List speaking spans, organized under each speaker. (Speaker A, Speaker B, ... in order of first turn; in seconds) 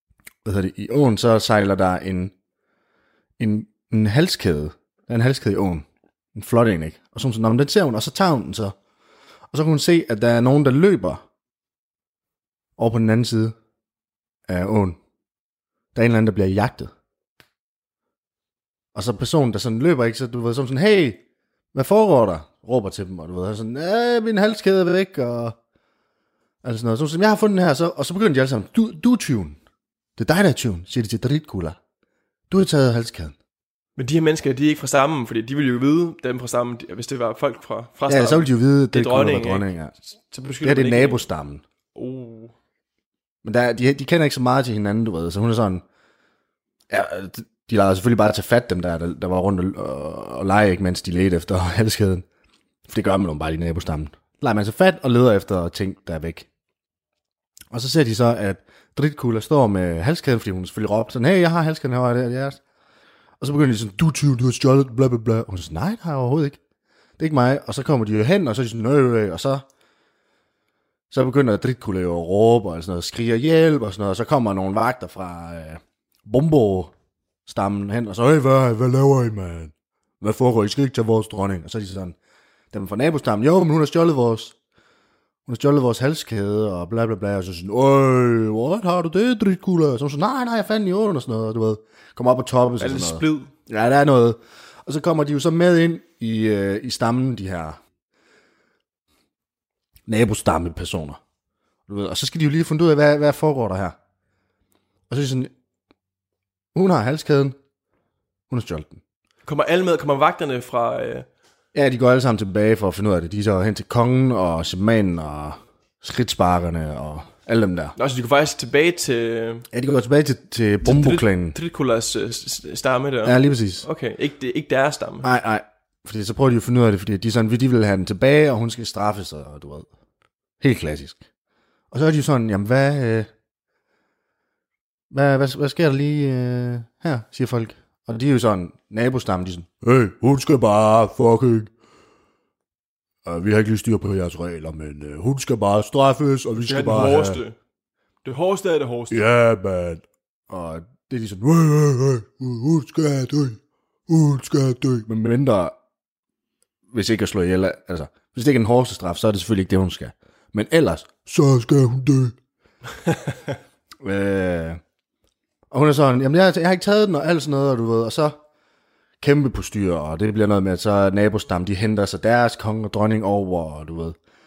Speaker A: 0.4-2.3, 3.4-8.8, 9.5-11.2, 12.8-13.6, 14.5-15.0, 15.9-16.9, 18.9-21.2, 21.7-25.6, 26.6-29.6, 30.2-31.8, 32.5-33.4, 38.1-39.9, 40.6-41.6, 43.4-45.8, 46.9-52.3, 52.9-56.5, 57.7-62.6, 63.4-66.6, 67.2-69.6, 71.1-76.9, 77.5-82.2, 82.7-84.6, 85.5-97.8, 100.1-101.2, 101.9-104.0, 105.1-105.5, 106.7-107.6, 108.5-109.0, 111.7-118.0, 119.7-121.6, 123.2-123.9, 125.2-129.9, 130.6-131.2, 131.9-133.3, 135.1-141.7, 143.2-147.4, 149.1-155.8, 156.9-162.3, 164.0-164.8, 165.7-168.4, 169.2-174.2
Speaker B: 34.0-39.7, 40.3-41.3, 42.0-42.5, 92.8-93.5, 109.5-111.3, 118.0-119.7, 120.8-125.3, 146.6-147.6, 148.2-149.2